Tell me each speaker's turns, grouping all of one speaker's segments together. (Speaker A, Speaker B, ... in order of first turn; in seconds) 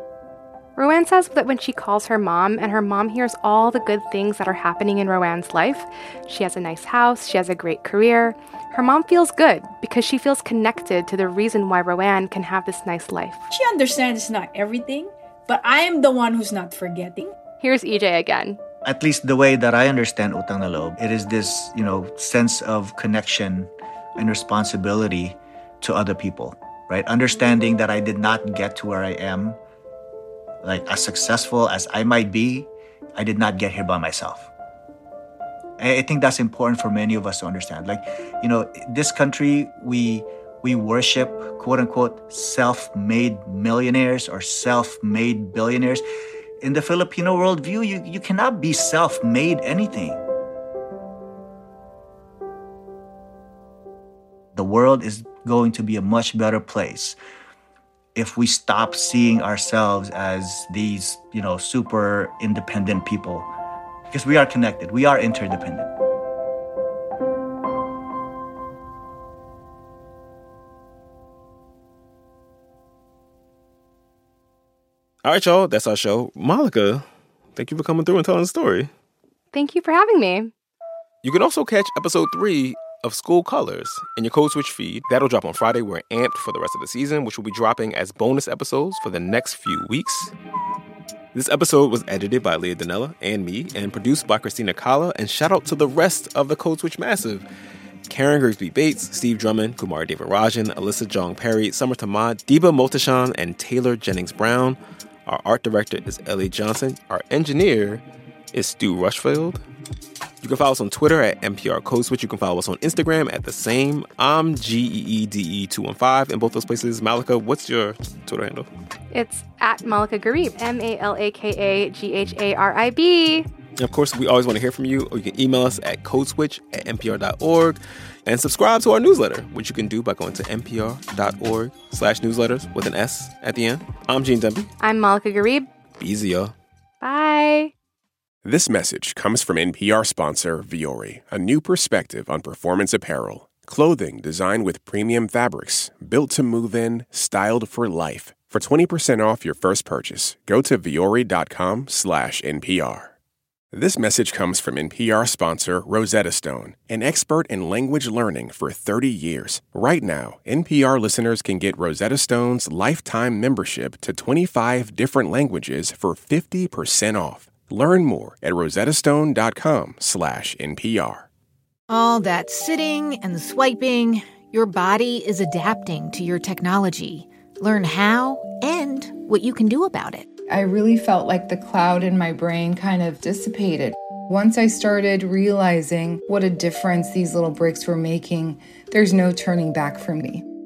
Speaker A: 0.8-13.5, 17.6-18.6, 79.5-80.5, 119.1-123.5, 134.8-135.7, 137.0-137.7
Speaker B: 13.5-17.3
Speaker C: 18.9-29.6, 30.6-34.5, 35.8-46.0, 46.6-50.2, 54.5-57.2, 58.1-63.5, 64.1-65.9
Speaker D: 75.2-78.9, 81.2-90.3, 91.3-97.5, 98.1-109.6, 110.4-118.7, 123.8-134.7, 136.0-136.5
Speaker E: 138.4-153.1, 153.7-171.3
Speaker F: 171.9-180.3
Speaker G: 180.5-190.4